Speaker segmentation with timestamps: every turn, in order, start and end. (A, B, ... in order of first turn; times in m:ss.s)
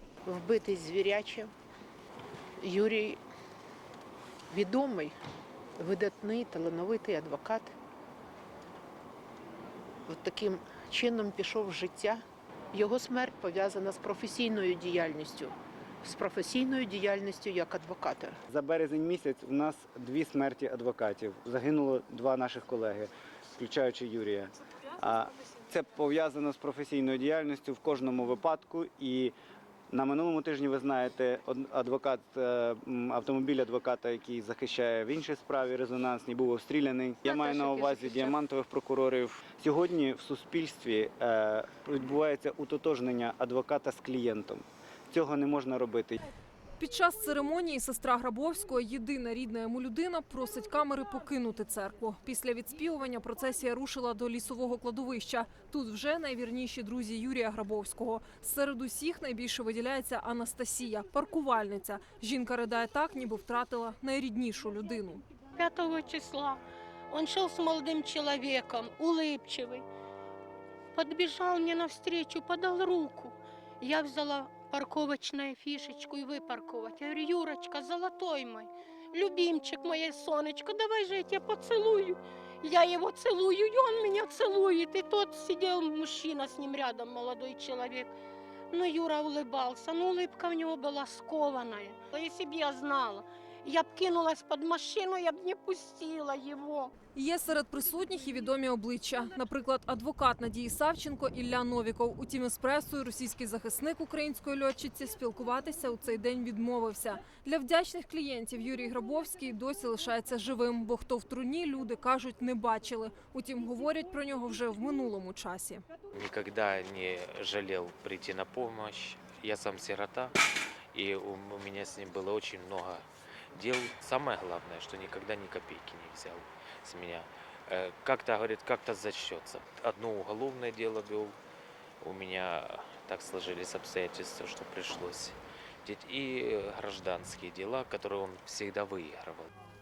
0:00.2-0:01.5 A
0:02.6-0:03.2 A
0:04.5-0:05.1 A
0:05.8-0:07.7 A
0:10.1-0:18.4 A
0:18.5-0:29.3 B
0:29.9-0:46.2 B
0:46.8-1:05.2 C
1:05.6-1:09.9 D
1:11.0-1:28.1 D
1:28.7-1:36.9 D
1:37.2-1:55.8 C
1:56.1-2:00.4 E
2:00.9-2:11.4 E
2:12.0-2:19.5 E